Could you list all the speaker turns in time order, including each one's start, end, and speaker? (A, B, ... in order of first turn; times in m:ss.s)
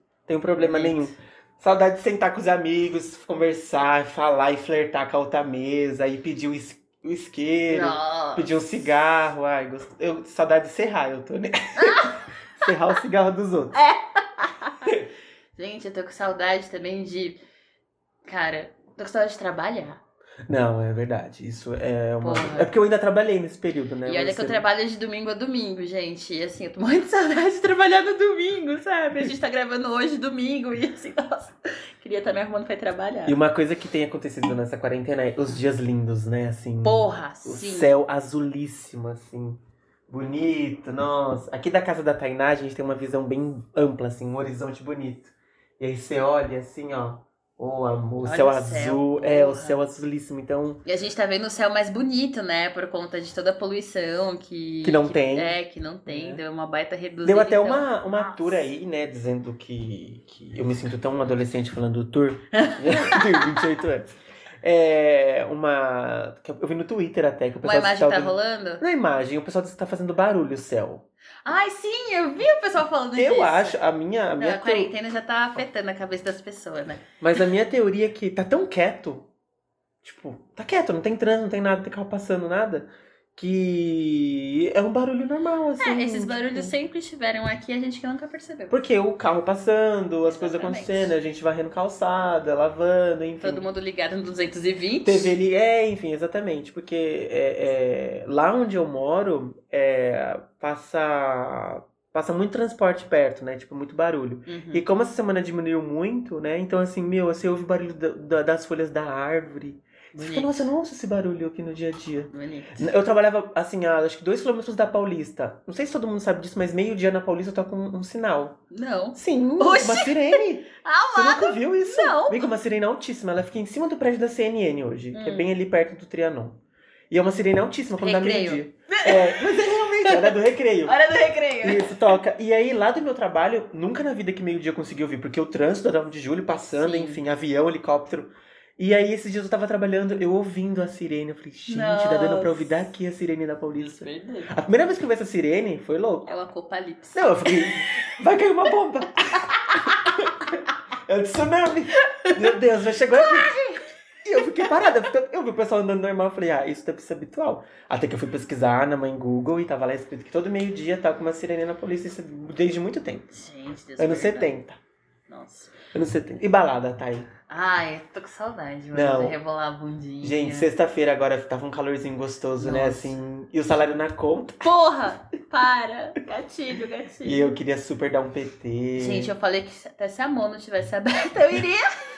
0:00.3-0:13.8 A
0:00.6-0:01.1 B
0:07.7-0:08.5 B
0:11.8-0:12.2 B
0:13.7-0:15.0 B
0:15.6-0:17.4 B
0:18.2-0:20.0 B
0:20.5-0:24.6 A
0:22.2-0:22.7 B
0:24.0-0:33.4 B
0:33.3-0:50.8 A
0:36.8-0:37.9 B
0:48.2-0:49.8 B
0:50.8-0:58.5 B
0:54.8-0:56.4 A
0:57.2-1:11.0 A
1:02.5-1:03.5 B
1:07.6-1:08.8 B
1:11.4-1:13.8 B
1:13.2-1:14.9 A
1:14.4-1:17.0 B
1:17.2-1:19.3 A
1:20.0-1:26.7 A
1:25.8-1:28.8 B
1:28.7-1:33.7 A
1:30.2-1:31.1 B
1:33.4-1:35.3 B
1:35.0-1:58.6 A
1:44.5-1:44.8 B
1:50.1-1:50.7 B
1:52.3-1:52.9 B
1:58.7-2:02.4 B
1:59.2-2:11.0 A
2:05.1-2:05.5 B
2:08.0-2:12.2 B
2:11.6-2:26.3 A
2:16.8-2:17.2 B
2:21.7-2:22.7 B
2:23.8-2:24.6 B
2:26.3-2:28.1 B
2:27.1-2:30.3 A
2:29.4-2:30.6 B
2:31.1-2:33.6 A
2:32.0-2:32.6 B
2:33.1-2:34.9 B
2:34.2-2:43.3 A
2:43.3-2:44.6 B
2:44.0-2:44.8 A
2:45.3-2:45.7 B
2:45.9-2:47.3 A
2:47.5-2:50.7 B
2:48.9-2:49.4 A
2:50.2-2:54.7 A
2:52.6-2:53.2 B
2:54.6-2:57.5 B
2:57.2-2:59.3 A
2:59.0-3:01.9 B